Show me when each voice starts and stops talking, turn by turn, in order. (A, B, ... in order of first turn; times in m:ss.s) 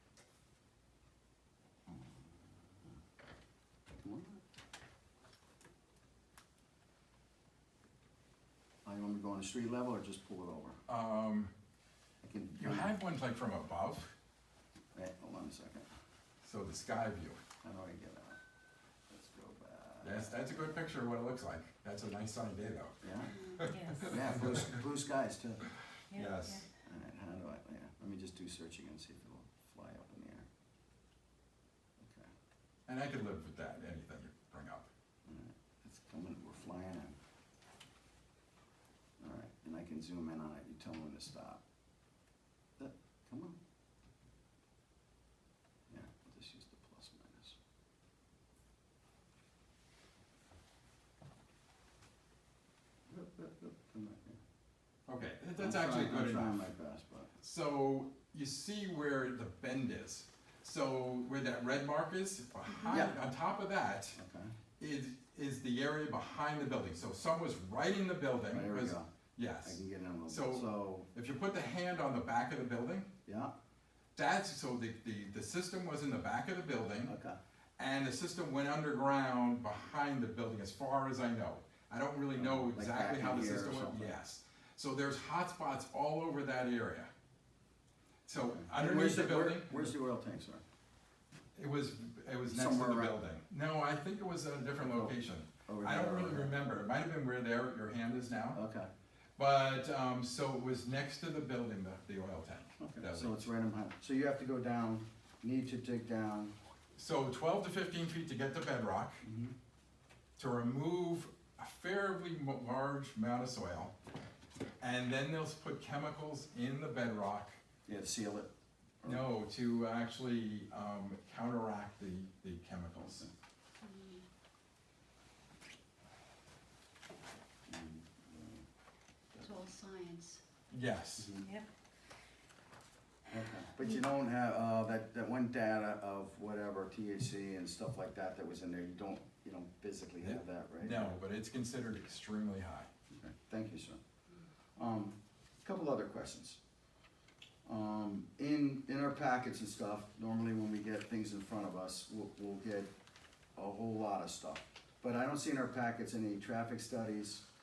0:01.9-0:02.9 A
0:04.0-0:04.4 A
0:08.8-0:10.8 A
0:10.9-0:11.5 B
0:12.2-0:12.9 A
0:12.5-0:14.1 B
0:14.9-0:15.8 A
0:16.4-0:17.4 B
0:17.6-0:18.4 A
0:19.1-0:20.8 A
0:20.0-0:24.7 B
0:23.0-0:25.6 A
0:23.5-0:24.1 C
0:26.1-0:26.7 B
0:26.1-0:26.5 C
0:26.8-0:30.5 A
0:32.0-0:32.3 A
0:32.9-0:34.9 B
0:35.2-0:37.2 A
0:39.2-0:41.6 A
0:42.8-0:43.6 A
0:45.9-0:47.6 A
0:53.1-0:54.4 A
0:55.1-0:56.6 B
0:55.6-0:57.3 A
0:57.4-1:04.2 B
1:02.8-1:03.2 A
1:04.2-1:04.5 A
1:04.8-1:13.1 B
1:08.5-1:09.1 A
1:09.6-1:11.1 A
1:13.2-1:13.5 A
1:14.2-1:17.1 B
1:17.0-1:17.4 A
1:17.8-1:27.1 B
1:22.3-1:24.2 A
1:28.2-1:29.9 B
1:28.4-1:30.6 A
1:31.6-1:38.6 B
1:32.5-1:33.2 A
1:34.9-1:35.2 A
1:35.7-1:36.6 A
1:38.5-1:38.9 A
1:39.4-1:43.5 B
1:42.8-1:46.5 A
1:47.0-1:49.2 B
1:49.2-1:49.5 A
1:50.4-1:53.9 B
1:54.8-1:57.6 B
1:57.8-1:58.5 A
1:59.0-2:03.3 B
2:03.8-2:04.2 C
2:07.7-2:08.6 A
2:09.3-2:09.6 A
2:09.4-2:10.4 C
2:10.7-2:11.4 B
2:11.2-2:11.5 A
2:11.4-2:11.7 C
2:13.3-2:21.2 A
2:20.2-2:22.9 B
2:23.1-2:24.0 A
2:24.8-2:26.6 A
2:27.6-2:32.9 A
2:33.6-2:37.4 A